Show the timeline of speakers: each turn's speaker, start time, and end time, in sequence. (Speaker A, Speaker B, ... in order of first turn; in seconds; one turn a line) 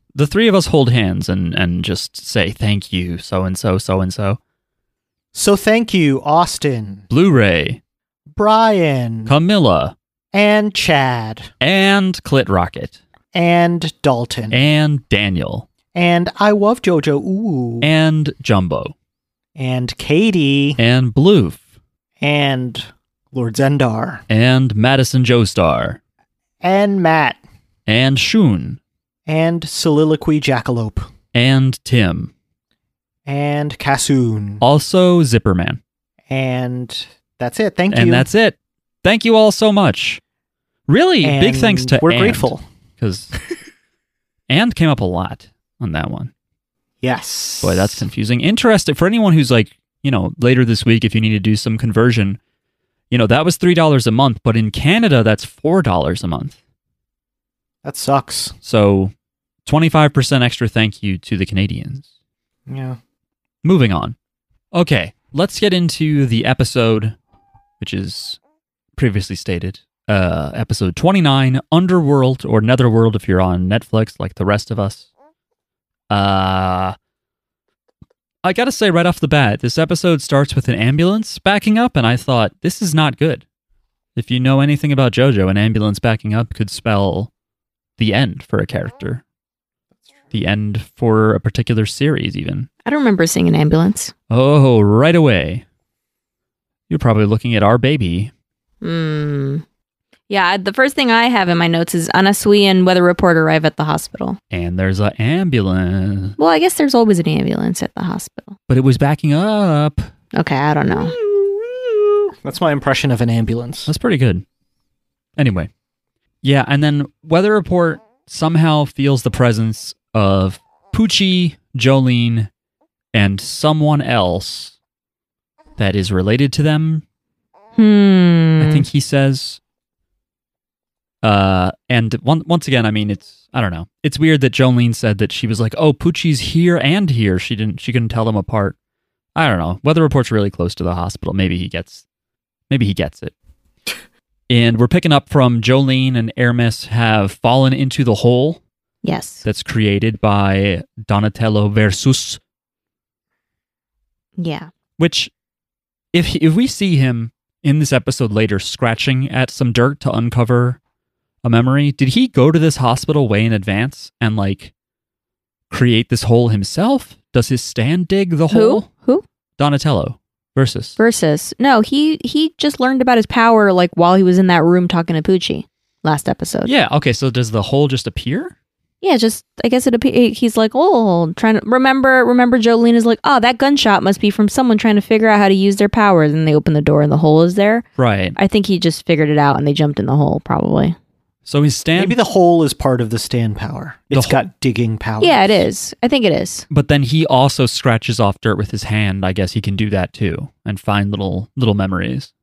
Speaker A: 0.1-4.4
Speaker B: 5.3-7.1
Speaker A: 7.1-7.8
Speaker B: 8.3-9.3
Speaker A: 9.3-9.9
Speaker B: 10.3-11.5
Speaker A: 11.6-13.0
Speaker B: 13.3-14.6
Speaker A: 14.5-15.7
Speaker B: 15.9-17.9
Speaker A: 17.8-18.9
Speaker B: 19.6-20.8
Speaker A: 20.8-21.6
Speaker B: 22.2-24.2
Speaker A: 24.3-26.0
Speaker B: 26.6-27.4
Speaker A: 27.9-28.8
Speaker B: 29.3-31.1
Speaker A: 31.3-32.3
Speaker B: 33.2-34.6
Speaker A: 34.6-35.8
Speaker B: 36.3-38.3
Speaker A: 37.9-40.2
Speaker A: 40.9-43.3
Speaker B: 41.2-42.6
Speaker A: 44.5-46.3
Speaker B: 47.0-48.0
Speaker A: 47.6-52.4
Speaker A: 53.1-56.5
Speaker B: 57.8-58.5
Speaker A: 58.6-59.1
Speaker A: 59.6-62.0
Speaker B: 62.7-63.0
Speaker A: 63.6-64.2
Speaker A: 64.7-67.2
Speaker A: 67.8-68.4
Speaker A: 69.0-75.1
Speaker A: 76.1-77.0
Speaker A: 78.4-83.4
Speaker A: 84.2-87.3
Speaker A: 88.0-89.2
Speaker A: 90.3-92.7
Speaker C: 92.8-94.1
Speaker A: 94.3-95.6
Speaker A: 96.9-98.3
Speaker C: 98.8-99.6
Speaker C: 100.3-104.4
Speaker A: 104.5-106.3
Speaker C: 106.4-108.5
Speaker A: 108.7-110.1
Speaker C: 110.3-111.1
Speaker B: 110.8-113.9
Speaker A: 113.9-114.4
Speaker A: 115.4-115.7
Speaker A: 116.4-122.5
Speaker A: 123.1-124.8
Speaker A: 125.8-127.0
Speaker C: 127.8-128.8
Speaker A: 128.6-129.6
Speaker A: 131.2-138.8
Speaker A: 139.3-142.0
Speaker A: 142.7-143.3
Speaker A: 144.5-148.6
Speaker C: 149.0-149.4
Speaker A: 149.4-152.4
Speaker C: 154.4-154.7
Speaker A: 155.0-155.3
Speaker A: 156.1-160.8
Speaker A: 161.4-164.7
Speaker A: 165.7-168.9
Speaker C: 168.5-169.2
Speaker A: 169.6-171.0
Speaker C: 171.0-176.7
Speaker A: 176.7-178.5
Speaker C: 179.0-190.9
Speaker A: 188.0-188.3
Speaker A: 191.4-192.2
Speaker B: 191.9-195.7
Speaker A: 194.1-194.4
Speaker C: 195.2-196.7
Speaker A: 196.7-202.3